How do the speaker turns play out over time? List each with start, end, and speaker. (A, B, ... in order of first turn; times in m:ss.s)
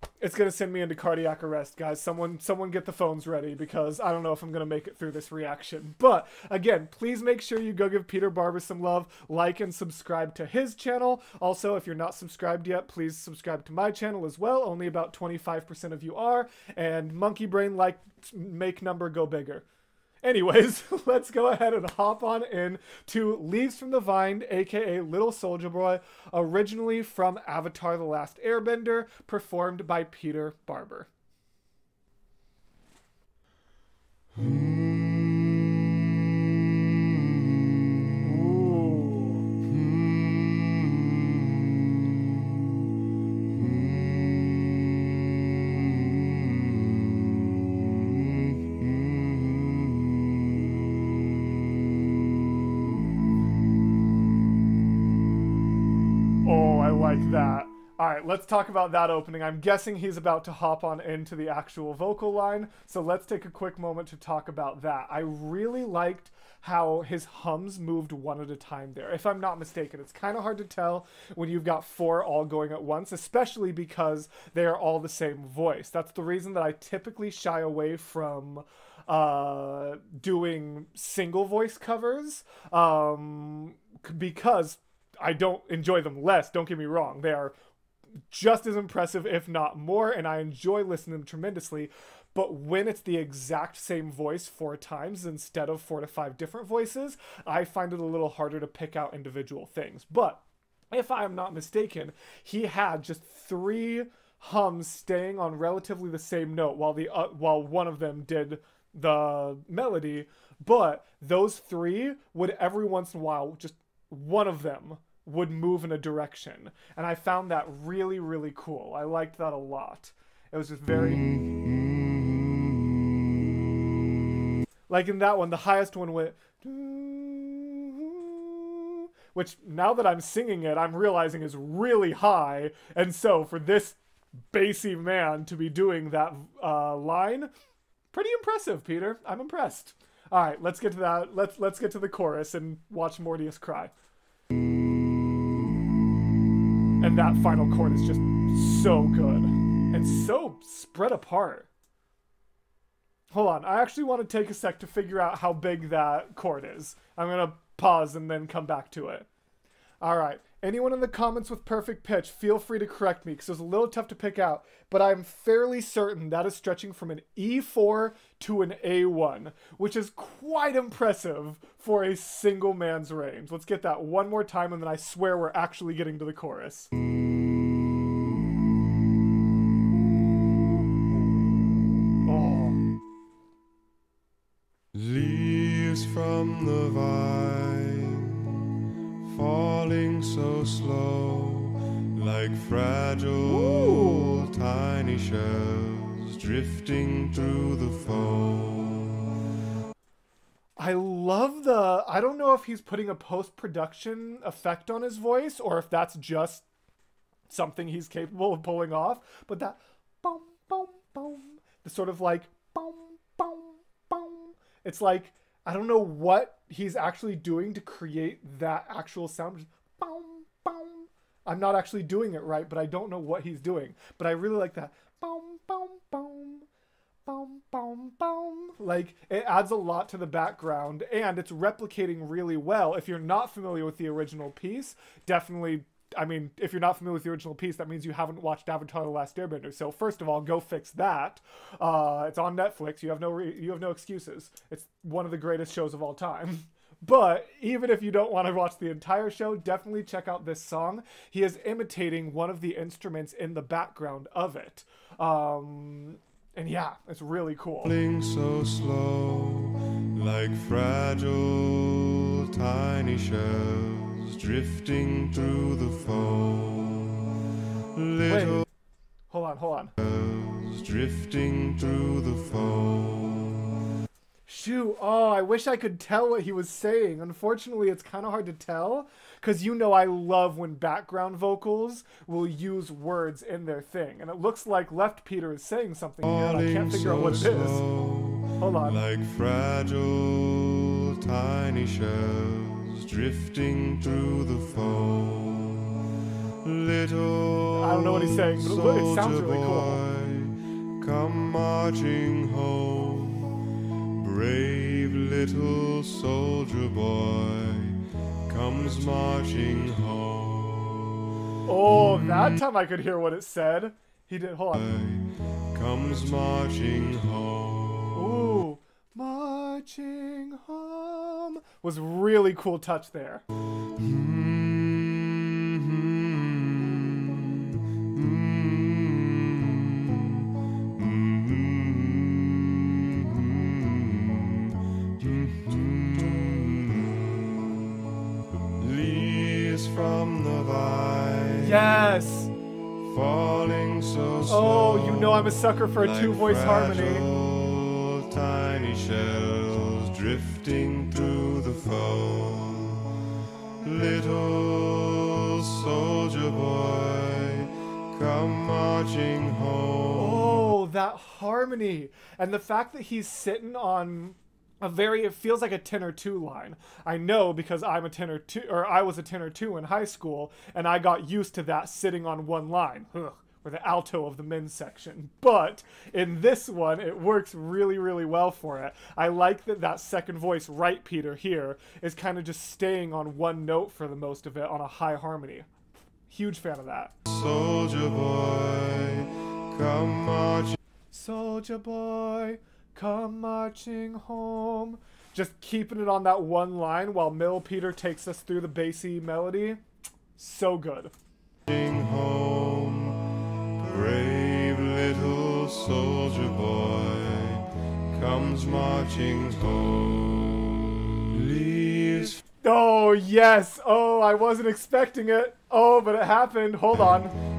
0:00.2-0:19.6 A
0:20.2-0:31.1 A
0:34.3-0:37.5 B
0:38.2-0:39.4 A
0:39.7-0:42.1 B
0:43.6-0:45.1 B
0:56.4-1:27.5 A
1:28.3-2:01.2 A
2:01.2-2:02.9 B
2:04.9-2:14.0 A
2:14.5-2:17.5 A
2:18.1-2:23.9 A
2:27.0-2:31.7 A
2:33.3-2:39.3 A
2:40.0-2:56.9 A
3:00.1-3:01.0 A
3:02.1-3:02.8 A
3:04.9-3:08.6 B
3:09.2-3:19.3 B
3:13.4-3:14.5 A
3:20.8-3:26.6 A
3:27.5-3:46.6 A
3:47.2-4:17.9 A
4:17.8-4:27.4 B
4:27.9-4:28.6 B
4:28.2-4:28.7 A
4:29.3-4:29.9 A
4:30.0-4:33.7 B
4:34.5-4:47.8 A
4:46.2-4:56.1 B
4:48.6-4:49.0 A
4:56.6-5:03.5 B
4:57.7-5:00.0 A
5:04.2-5:11.3 B
5:11.6-5:14.8 A
5:14.7-5:18.4 B
5:18.1-5:23.4 A
5:24.0-5:37.9 B
5:38.8-5:42.1 B
5:41.6-5:42.5 A
5:43.0-5:53.2 B
5:44.5-5:47.3 A
5:53.8-6:00.6 B
6:00.1-6:25.7 A
6:26.3-6:27.2 A
6:27.3-6:30.8 B
6:31.1-6:39.8 A
6:40.4-6:41.1 A
6:41.6-6:52.4 B
6:52.6-6:57.3 A